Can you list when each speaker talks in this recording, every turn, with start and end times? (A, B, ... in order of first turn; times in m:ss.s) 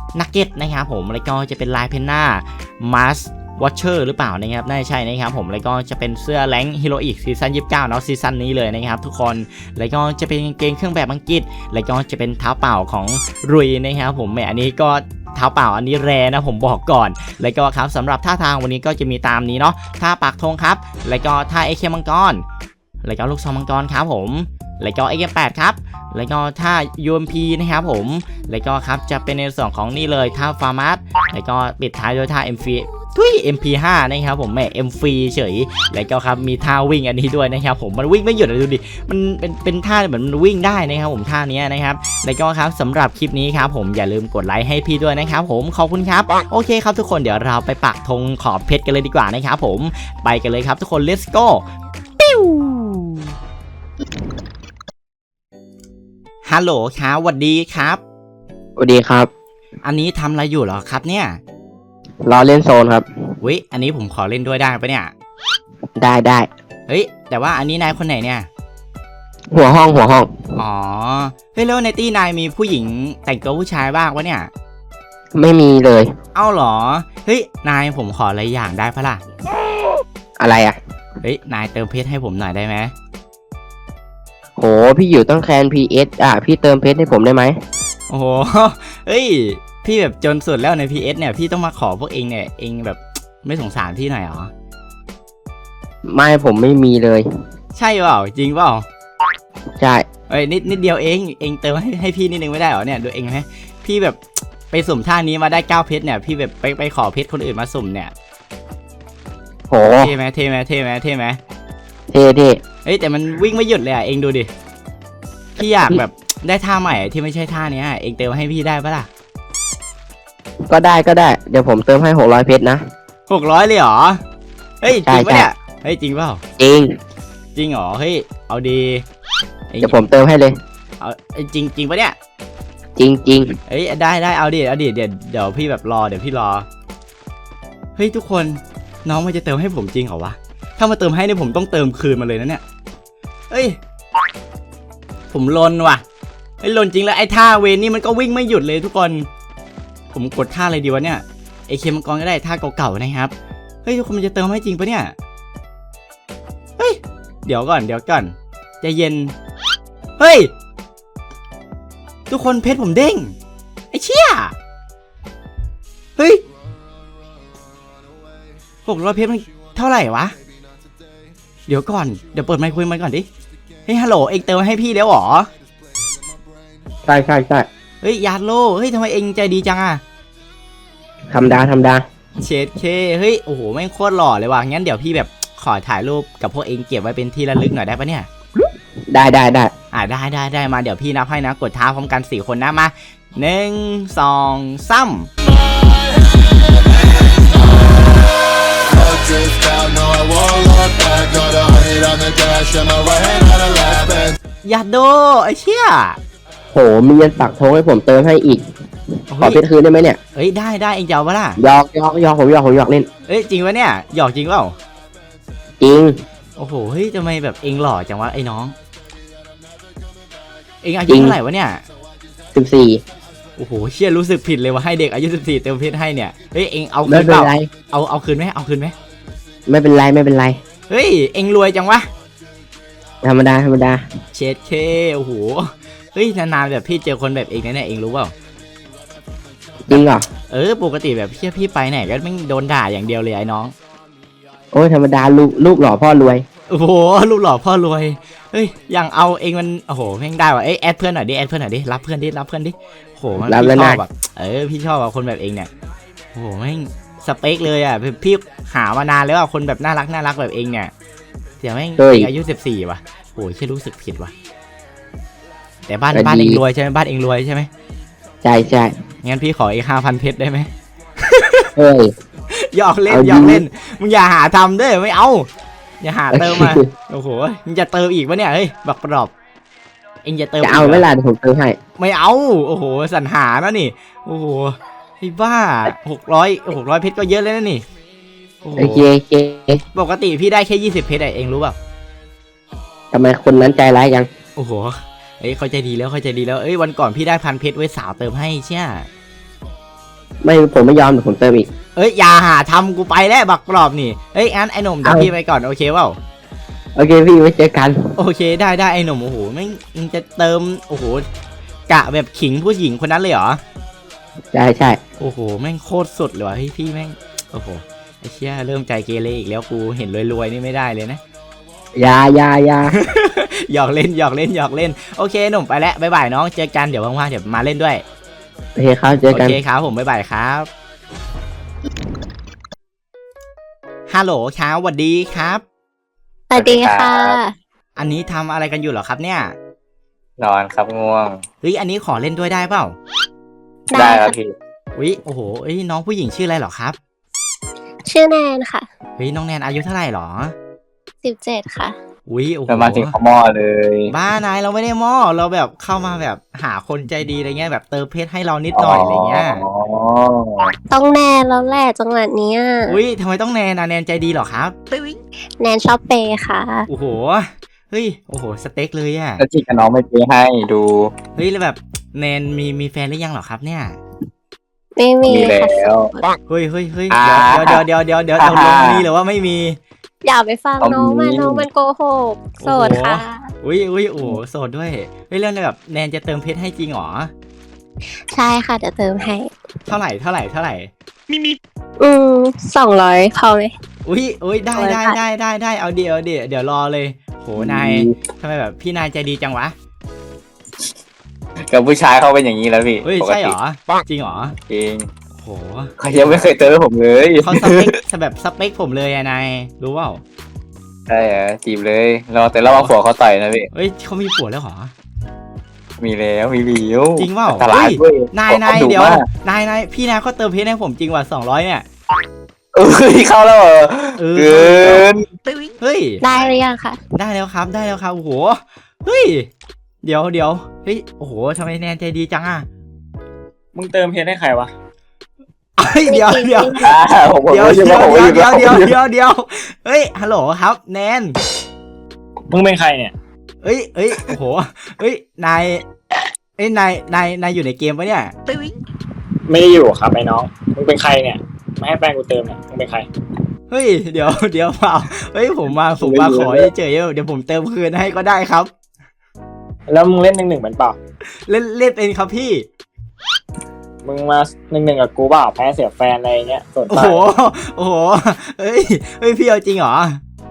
0:00.1-0:22.4 A
0:23.0-0:51.6 A
0:52.2-0:53.3 A
0:56.4-0:58.0 A
0:58.8-0:59.3 B
0:59.8-1:01.4 A
1:02.2-1:03.1 B
1:03.4-1:05.1 A
1:06.0-1:06.5 B
1:06.9-1:08.5 A
1:09.5-1:10.6 B
1:10.6-1:14.5 A
1:15.3-1:16.1 B
1:16.3-1:19.2 A
1:20.4-1:20.8 B
1:21.2-1:22.9 A
1:24.6-1:27.6 B
1:28.1-1:34.5 A
1:36.0-1:37.2 B
1:37.7-1:38.8 A
1:39.8-1:40.1 B
1:40.3-1:44.2 A
1:44.7-1:48.1 A
1:49.7-1:50.1 B
1:50.0-1:51.4 A
1:52.1-1:52.6 B
1:52.8-1:54.5 A
1:55.6-1:59.1 A
2:00.7-2:02.8 B
2:03.3-2:04.2 A
2:04.8-2:06.4 A
2:05.0-2:05.5 B
2:06.6-2:07.0 B
2:07.5-2:09.0 A
2:09.7-2:10.0 A
2:09.8-2:10.6 B
2:11.0-2:12.2 A
2:13.0-2:13.6 B
2:13.7-2:16.7 A
2:18.0-2:22.6 A
2:23.5-2:23.8 A
2:25.3-2:26.0 A
2:26.6-2:29.3 A
2:30.1-2:33.3 A
2:33.8-2:35.1 A
2:36.8-2:39.3 A
2:40.2-2:40.5 A
2:42.3-2:43.3 A
2:43.9-2:44.5 A
2:46.2-2:46.4 A
2:48.8-2:50.3 A
2:51.7-2:53.3 A
2:53.9-2:55.5 A
2:57.0-2:57.7 B
2:58.0-3:00.0 A
3:01.3-3:02.0 B
3:02.4-3:08.3 A
3:09.1-3:09.7 B
3:09.9-3:15.3 A
3:16.8-3:24.4 C
3:24.6-3:26.2 A
3:26.7-3:28.6 B
3:29.3-3:29.6 A
3:29.4-3:30.2 B
3:30.3-3:31.6 A
3:31.6-3:33.1 B
3:33.3-3:34.8 A
3:35.8-3:36.2 B
3:36.6-3:38.8 A
3:40.8-3:41.8 A
3:41.1-3:41.4 B
3:42.5-3:43.0 B
3:43.6-3:48.9 A
3:47.1-3:47.7 B
3:49.7-3:50.6 B
3:50.9-3:52.1 A
3:53.2-3:54.0 B
3:54.3-3:58.3 A
3:59.9-4:00.2 B
4:00.5-4:03.7 A
4:04.7-4:06.4 B
4:06.7-4:15.7 A
4:13.4-4:14.0 B
4:16.3-4:20.9 A
4:21.6-4:24.3 A
4:22.0-4:22.3 B
4:25.9-4:27.7 A
4:26.1-4:26.6 B
4:28.4-4:28.9 B
4:29.2-4:31.7 A
4:31.8-4:32.1 B
4:32.5-4:35.5 A
4:33.1-4:33.6 B
4:36.0-4:39.3 A
4:36.3-4:36.9 B
4:40.2-4:41.0 A
4:40.6-4:41.8 B
4:42.0-4:47.8 A
4:48.6-4:49.0 A
4:48.8-4:49.8 B
4:49.9-4:51.8 A
4:53.1-4:54.3 B
4:54.6-4:59.1 A
5:00.4-5:01.7 B
5:02.0-5:06.2 A
5:05.0-5:05.3 B
5:07.0-5:08.1 B
5:08.2-5:11.2 A
5:11.9-5:13.6 A
5:14.5-5:15.0 B
5:15.2-5:21.2 A
5:22.0-5:22.9 B
5:22.9-5:28.0 A
5:28.8-5:29.6 B
5:29.3-5:30.7 A
5:34.1-5:35.6 A
5:36.5-5:37.5 D
5:36.5-5:37.4 E
5:38.0-5:39.5 A
5:40.4-5:41.4 E
5:41.6-5:43.0 A
5:43.9-5:44.3 D
5:43.9-5:44.5 E
5:45.0-5:47.0 A
5:48.0-5:48.8 D
5:49.2-5:50.5 A
5:51.2-5:52.0 D
5:52.3-5:53.1 A
5:52.7-5:54.1 E
5:54.1-5:59.6 A
5:58.7-6:00.7 E
6:00.9-6:03.0 D
6:02.9-6:04.7 A
6:04.9-6:06.9 D
6:06.9-6:09.4 A
6:09.4-6:11.1 E
6:11.4-6:14.0 A
6:15.0-6:16.2 D
6:15.3-6:16.1 E
6:16.5-6:19.8 A
6:17.1-6:17.8 E
6:18.4-6:19.0 E
6:20.2-6:23.5 D
6:20.8-6:21.6 E
6:22.6-6:27.3 A
6:28.2-6:29.5 D
6:29.9-6:30.9 A
6:31.3-6:33.7 D
6:34.0-6:39.7 A
6:34.8-6:35.2 D
6:37.6-6:38.1 E
6:41.7-6:43.5 E
6:43.0-6:44.6 A
6:44.7-6:45.1 E
6:45.4-6:45.9 A
6:46.0-6:48.0 E
6:47.4-6:50.2 A
6:51.1-6:53.7 E
6:53.7-6:54.9 A
6:56.0-6:59.2 E
6:57.2-7:01.8 A
7:02.7-7:05.3 E
7:04.2-7:05.1 A
7:05.8-7:06.2 A
7:06.2-7:07.0 D
7:07.1-7:09.5 A
7:10.0-7:12.7 A
7:13.7-7:14.7 F
7:15.8-7:21.4 A
7:16.1-7:16.8 D
7:16.8-7:19.0 E
7:22.5-7:23.1 F
7:23.6-7:25.8 A
7:26.6-7:28.3 A
7:29.5-7:33.1 F
7:33.7-7:38.7 A
7:36.0-7:36.7 E
7:39.9-7:41.0 F
7:41.5-7:42.6 A
7:44.0-7:47.2 F
7:46.9-7:50.2 A